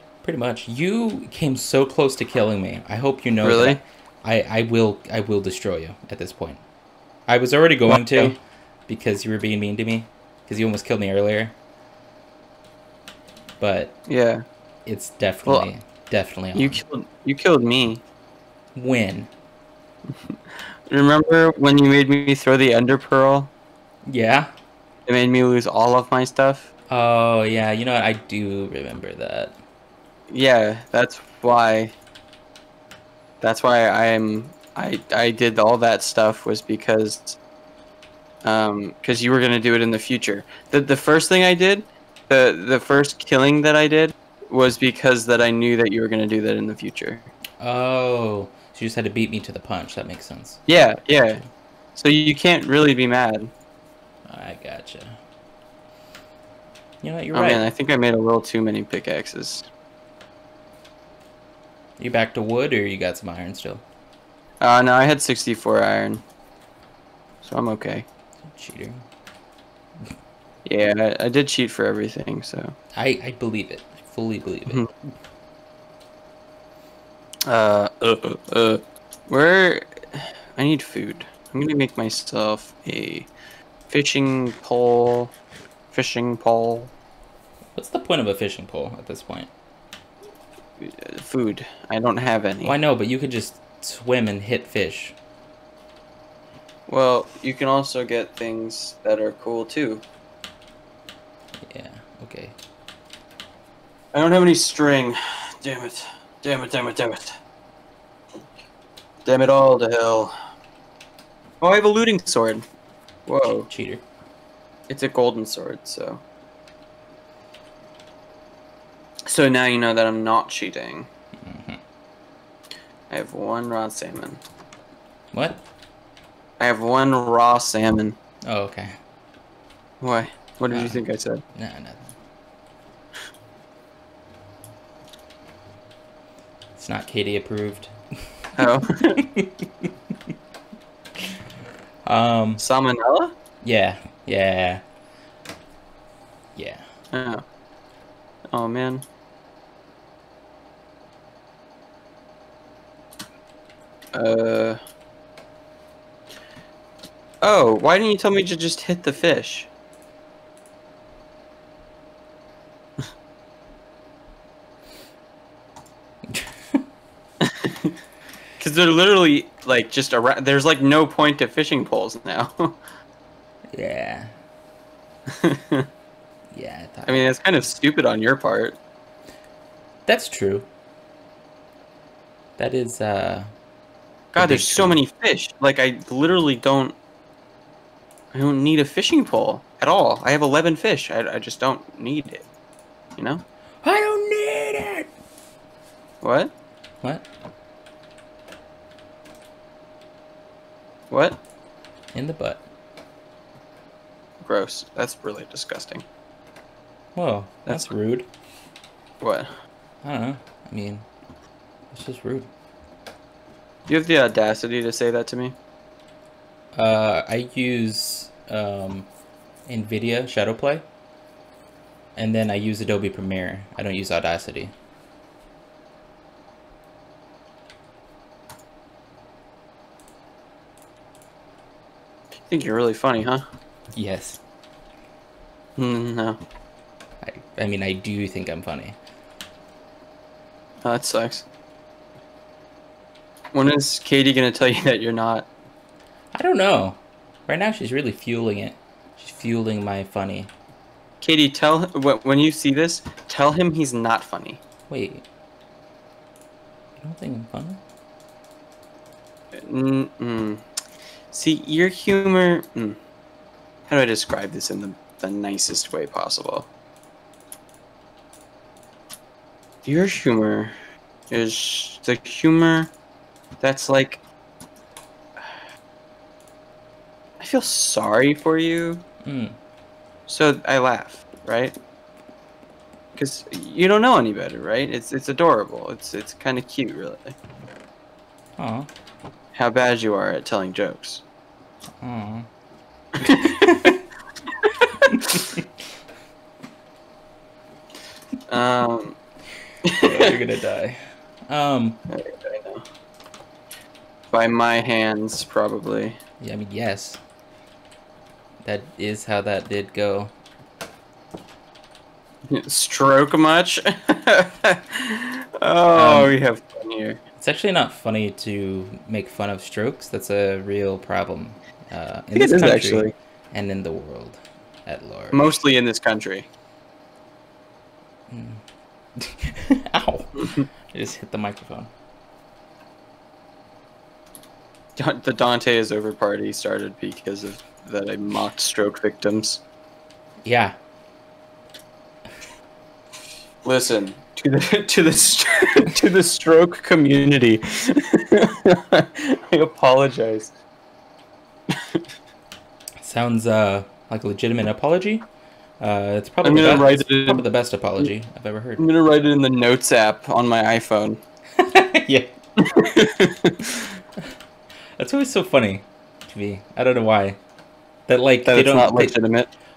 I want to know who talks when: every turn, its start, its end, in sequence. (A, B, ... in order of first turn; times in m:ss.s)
0:00.2-0:06.6 A
0:03.4-0:03.8 B
0:07.3-0:11.5 A
0:07.9-0:08.4 B
0:13.6-0:14.0 A
0:14.1-0:14.4 B
0:14.8-0:16.8 A
0:16.5-0:18.0 B
0:18.7-0:19.3 A
0:20.9-0:23.5 B
0:24.1-0:24.5 A
0:25.1-0:26.7 B
0:26.9-0:29.5 A
0:30.3-0:31.9 B
0:33.4-0:37.4 B
0:38.4-0:47.3 B
0:47.6-0:50.6 A
0:50.7-0:51.4 B
0:52.0-0:53.5 B
0:54.3-0:55.2 A
0:57.0-0:57.6 A
0:57.3-0:59.6 B
1:02.0-1:03.8 A
1:04.6-1:06.2 B
1:07.4-1:08.0 B
1:08.4-1:09.0 A
1:10.6-1:12.8 B
1:13.0-1:14.8 A
1:17.5-1:23.3 B
1:23.9-1:25.3 B
1:25.9-1:26.9 B
1:27.8-1:29.5 A
1:30.8-1:32.7 B
1:32.6-1:35.2 A
1:36.9-1:40.0 B
1:41.6-1:42.5 A
1:44.1-1:47.4 B
1:49.2-1:50.3 B
1:51.6-1:52.6 B
1:53.3-1:53.7 B
1:53.4-1:54.0 A
1:54.9-1:56.2 B
1:59.3-2:01.1 B
2:01.4-2:01.8 A
2:03.1-2:04.4 B
2:05.3-2:05.6 A
2:06.6-2:08.2 B
2:08.5-2:08.9 A
2:10.0-2:11.4 B
2:10.7-2:11.0 A
2:11.6-2:12.1 A
2:16.8-2:17.9 A
2:18.6-2:19.2 B
2:19.2-2:19.9 A
2:22.0-2:22.6 A
2:22.6-2:23.3 B
2:23.6-2:24.8 A
2:26.6-2:26.8 A
2:27.1-2:27.4 B
2:28.5-2:29.0 B
2:34.1-2:34.8 B
2:37.4-2:39.7 B
2:46.3-2:46.8 A
2:47.4-2:47.9 B
2:48.6-2:52.8 B
2:53.7-2:54.3 A
2:55.4-2:55.9 B
2:56.5-2:57.2 A
2:57.0-2:58.8 B
3:00.1-3:00.7 A
3:02.6-3:03.5 A
3:04.3-3:07.0 B
3:04.4-3:05.0 A
3:08.3-3:12.4 B
3:13.2-3:13.4 B
3:13.8-3:15.1 A
3:16.2-3:16.5 B
3:21.1-3:21.4 B
3:22.1-3:22.6 A
3:24.4-3:26.0 B
3:27.1-3:28.3 A
3:29.2-3:29.5 B
3:30.0-3:31.1 A
3:31.9-3:32.5 A
3:33.9-3:35.6 B
3:36.8-3:39.1 A
3:39.7-3:40.8 A
3:42.2-3:44.7 A
3:52.5-3:53.4 B
3:53.9-3:54.4 A
3:55.8-3:56.4 B
3:57.2-3:59.0 A
4:00.8-4:01.4 B
4:03.5-4:05.5 B
4:06.3-4:10.5 A
4:11.2-4:14.6 B
4:14.9-4:15.2 A
4:17.0-4:17.8 A
4:19.6-4:20.6 B
4:21.3-4:23.0 B
4:23.9-4:26.7 B
4:29.8-4:30.7 B
4:31.3-4:32.9 B
4:33.6-4:34.2 B
4:37.4-4:39.0 B
4:39.2-4:39.6 A
4:40.3-4:41.8 B
4:43.2-4:47.3 B
4:48.6-4:48.9 A
4:49.5-4:51.2 B
4:52.0-4:52.5 A
4:53.2-4:53.6 B
4:53.2-4:54.0 A
4:55.1-4:55.6 A
4:58.5-4:59.2 B
4:59.9-5:00.3 B
5:00.0-5:02.0 A
5:02.1-5:02.8 B
5:04.3-5:06.2 B
5:06.4-5:07.2 A
5:08.6-5:10.3 A
5:12.5-5:17.2 B
5:15.9-5:16.4 A
5:17.4-5:25.6 A
5:22.3-5:23.1 B
5:25.3-5:26.4 B
5:28.3-5:28.6 A
5:29.2-5:31.9 A
5:35.0-5:39.6 B
5:40.4-5:40.8 A
5:43.6-5:50.5 B
5:53.0-5:55.3 A
5:55.8-5:58.8 A
5:56.4-5:57.5 B
5:58.8-6:01.2 B
6:01.6-6:02.3 A
6:02.6-6:03.9 B
6:05.0-6:07.4 A
6:08.1-6:09.2 A
6:08.4-6:09.5 B